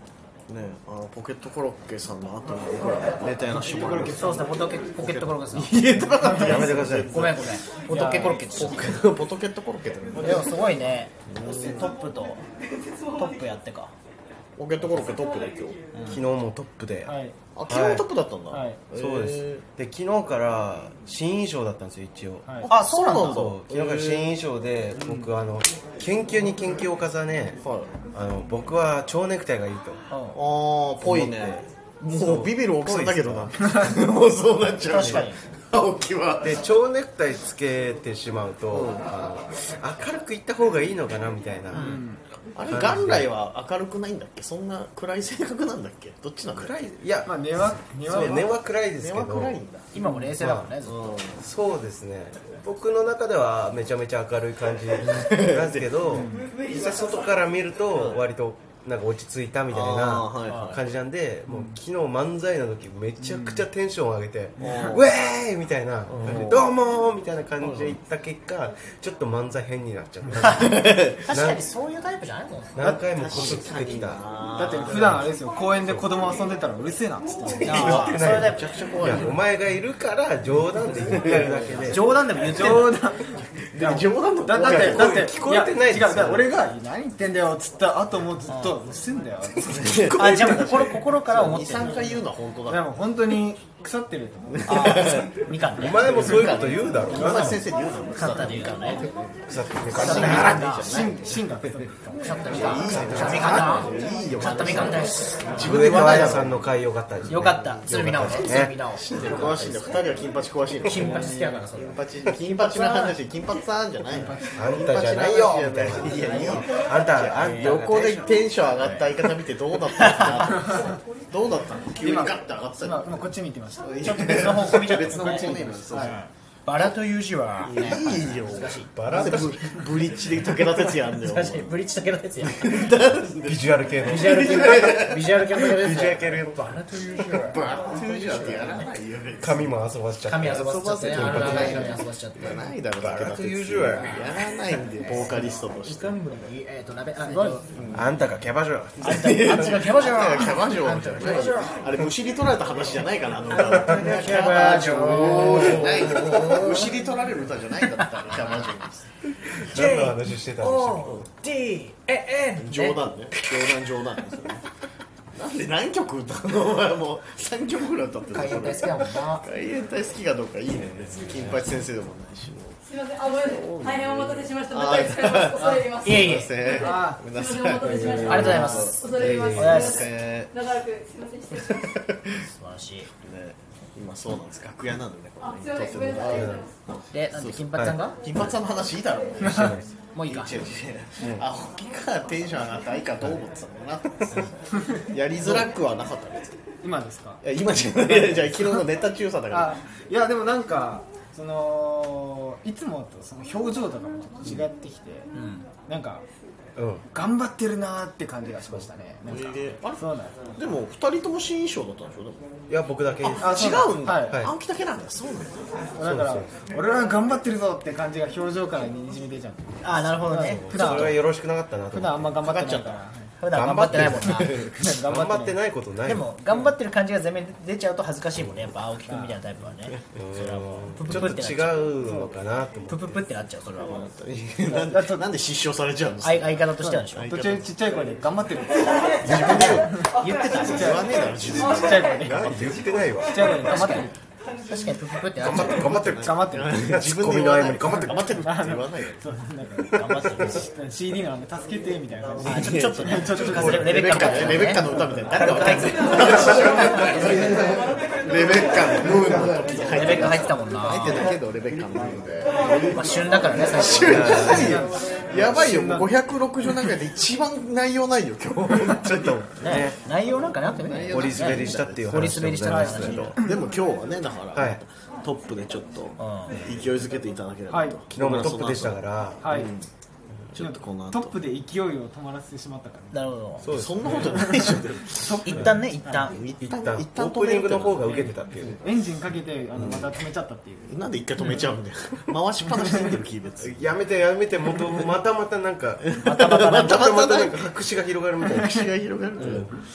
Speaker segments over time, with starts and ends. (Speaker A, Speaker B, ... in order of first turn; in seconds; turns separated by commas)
Speaker A: 0.5-7.6, Speaker B: 3.5-4.5, Speaker C: 4.1-5.9, Speaker B: 6.2-6.6, Speaker D: 6.2-7.2, Speaker C: 7.1-8.9, Speaker B: 7.9-8.5, Speaker A: 8.3-10.5, Speaker C: 10.2-12.4, Speaker A: 11.3-11.8, Speaker C: 13.1-13.9, Speaker A: 14.6-15.8, Speaker D: 16.1-17.1, Speaker B: 17.1-17.4, Speaker A: 17.5-19.6, Speaker D: 17.7-18.1, Speaker B: 18.5-18.8, Speaker D: 18.9-22.7, Speaker C: 22.7-23.5, Speaker A: 22.7-24.3, Speaker D: 23.2-27.6, Speaker B: 25.0-25.3, Speaker A: 27.6-27.9, Speaker D: 28.1-30.0, Speaker C: 30.1-30.4, Speaker A: 30.3-36.7, Speaker D: 31.0-33.5, Speaker C: 34.8-35.4, Speaker D: 35.0-35.3, Speaker D: 36.4-41.9, Speaker A: 38.7-39.1, Speaker C: 41.7-42.0, Speaker B: 41.8-42.2, Speaker A: 42.5-46.8, Speaker D: 42.7-43.3, Speaker D: 46.5-47.4, Speaker B: 47.2-48.5, Speaker D: 47.9-49.6, Speaker A: 49.0-49.9, Speaker C: 49.9-51.2, Speaker B: 50.0-50.3, Speaker D: 50.4-50.7, Speaker A: 50.9-51.4, Speaker D: 51.4-71.6, Speaker A: 55.0-55.9, Speaker B: 56.1-56.5, Speaker A: 57.9-58.2, Speaker A: 59.7-60.8, Speaker B: 61.5-61.8, Speaker B: 63.2-63.6, Speaker A: 64.6-65.1, Speaker A: 66.1-66.7, Speaker A: 67.6-68.0, Speaker C: 70.4-70.7, Speaker A: 70.7-71.3, Speaker C: 71.2-72.9, Speaker D: 72.7-74.2, Speaker A: 73.0-75.2, Speaker B: 74.5-77.9, Speaker D: 74.8-75.2, Speaker D: 77.5-82.0, Speaker C: 77.6-78.7, Speaker A: 77.7-79.4, Speaker A: 81.0-82.1, Speaker C: 81.8-83.0, Speaker B: 82.4-90.6, Speaker A: 83.7-85.2, Speaker D: 84.6-86.6, Speaker C: 88.5-88.8, Speaker A: 89.7-92.8, Speaker C: 90.1-92.2, Speaker B: 92.7-95.1, Speaker A: 94.5-101.4, Speaker C: 94.6-96.5, Speaker D: 95.8-97.6, Speaker C: 98.1-99.0, Speaker D: 99.5-100.6, Speaker C: 99.9-100.9, Speaker B: 100.1-102.9, Speaker C: 102.2-106.5, Speaker A: 102.5-106.6, Speaker D: 102.8-103.6, Speaker D: 105.6-108.8, Speaker C: 107.3-110.0, Speaker A: 107.6-126.2, Speaker C: 110.8-113.1, Speaker B: 114.1-114.6, Speaker D: 114.5-118.2, Speaker B: 116.0-116.5, Speaker C: 116.2-116.7, Speaker C: 117.3-119.1, Speaker C: 119.9-120.6, Speaker B: 122.0-126.2, Speaker C: 124.0-129.1, Speaker A: 127.6-131.7, Speaker D: 128.9-129.5, Speaker C: 131.1-132.9, Speaker A: 132.4-135.2, Speaker D: 133.4-135.1, Speaker C: 134.0-138.9, Speaker D: 135.6-138.7, Speaker A: 137.4-139.7, Speaker D: 139.4-142.0, Speaker C: 140.2-142.7, Speaker A: 140.4-146.2, Speaker D: 142.9-144.3, Speaker C: 143.9-144.2, Speaker C: 145.0-147.6, Speaker B: 145.3-145.6, Speaker B: 147.3-147.6, Speaker A: 147.7-148.2, Speaker D: 147.9-149.9, Speaker C: 149.0-151.8, Speaker A: 149.1-159.1, Speaker C: 153.5-157.2, Speaker D: 153.6-154.2, Speaker D: 154.9-156.3, Speaker C: 158.0-158.7, Speaker D: 159.4-161.2, Speaker C: 159.7-164.0, Speaker A: 162.6-164.6, Speaker A: 165.3-180.5, Speaker C: 168.3-169.4, Speaker D: 171.2-171.6, Speaker E: 173.2-176.0, Speaker B: 175.6-175.8, Speaker C: 176.0-176.6, Speaker B: 176.7-177.3, Speaker E: 177.7-178.2, Speaker B: 177.9-178.8, Speaker D: 178.0-178.4, Speaker C: 178.1-179.0, Speaker E: 178.9-180.0, Speaker C: 179.5-180.1, Speaker E: 180.7-181.5, Speaker A: 181.5-182.4, Speaker C: 182.4-183.1, Speaker A: 183.2-187.7, Speaker E: 185.8-186.5, Speaker D: 186.2-186.7, Speaker C: 187.1-188.2, Speaker D: 187.7-188.5, Speaker A: 188.2-196.6, Speaker B: 189.4-189.7, Speaker D: 189.4-189.9, Speaker C: 190.1-190.7, Speaker D: 191.2-191.4, Speaker B: 196.8-197.4, Speaker A: 197.4-199.8, Speaker B: 199.5-205.3, Speaker C: 205.3-205.7, Speaker B: 205.8-206.2, Speaker D: 206.8-207.0, Speaker B: 207.1-210.5, Speaker A: 209.3-212.4, Speaker D: 212.7-213.5, Speaker A: 213.2-215.9, Speaker B: 213.4-214.4, Speaker D: 214.2-214.5, Speaker B: 215.9-221.2, Speaker D: 216.0-216.5, Speaker C: 219.8-220.8, Speaker D: 220.5-222.3, Speaker B: 221.9-223.3, Speaker A: 222.4-223.0, Speaker C: 223.4-224.7, Speaker D: 223.5-224.5, Speaker A: 224.3-224.8, Speaker B: 224.7-225.6, Speaker D: 225.1-226.3, Speaker C: 226.0-231.9, Speaker B: 226.5-226.7, Speaker B: 229.1-229.4, Speaker D: 230.1-233.2, Speaker B: 232.0-232.3, Speaker C: 232.9-234.1, Speaker A: 233.9-237.7, Speaker B: 234.7-235.3, Speaker C: 236.2-237.3, Speaker B: 236.8-242.5, Speaker A: 239.2-242.8, Speaker D: 239.2-239.8, Speaker C: 240.1-240.9, Speaker D: 242.2-243.5, Speaker B: 243.2-244.1, Speaker C: 243.6-244.1, Speaker C: 244.7-246.1, Speaker D: 245.4-248.3, Speaker A: 245.7-249.2, Speaker B: 246.2-246.8, Speaker B: 248.1-254.1, Speaker C: 249.9-250.7, Speaker A: 250.1-250.6, Speaker C: 252.4-257.6, Speaker A: 252.4-269.6, Speaker D: 253.4-253.9, Speaker C: 259.9-261.3, Speaker C: 262.9-264.7, Speaker D: 264.0-264.6, Speaker B: 264.0-266.1, Speaker D: 269.0-270.0, Speaker C: 269.6-273.4, Speaker A: 270.7-279.9, Speaker D: 271.1-273.4, Speaker B: 272.6-273.6, Speaker D: 274.5-274.8, Speaker C: 276.2-276.6, Speaker B: 277.7-278.0, Speaker D: 278.1-279.4, Speaker B: 279.4-279.7, Speaker A: 280.5-281.4, Speaker B: 280.6-283.2, Speaker C: 283.1-283.7, Speaker D: 283.6-284.5, Speaker A: 283.7-288.3, Speaker B: 284.1-286.3, Speaker C: 285.4-286.4, Speaker D: 286.6-288.8, Speaker B: 288.1-291.7, Speaker A: 289.7-290.2, Speaker A: 290.9-293.9, Speaker D: 293.6-296.1, Speaker A: 296.1-297.7, Speaker C: 296.2-297.1, Speaker D: 296.8-298.7, Speaker A: 298.4-299.8, Speaker B: 298.5-298.9, Speaker D: 299.4-299.7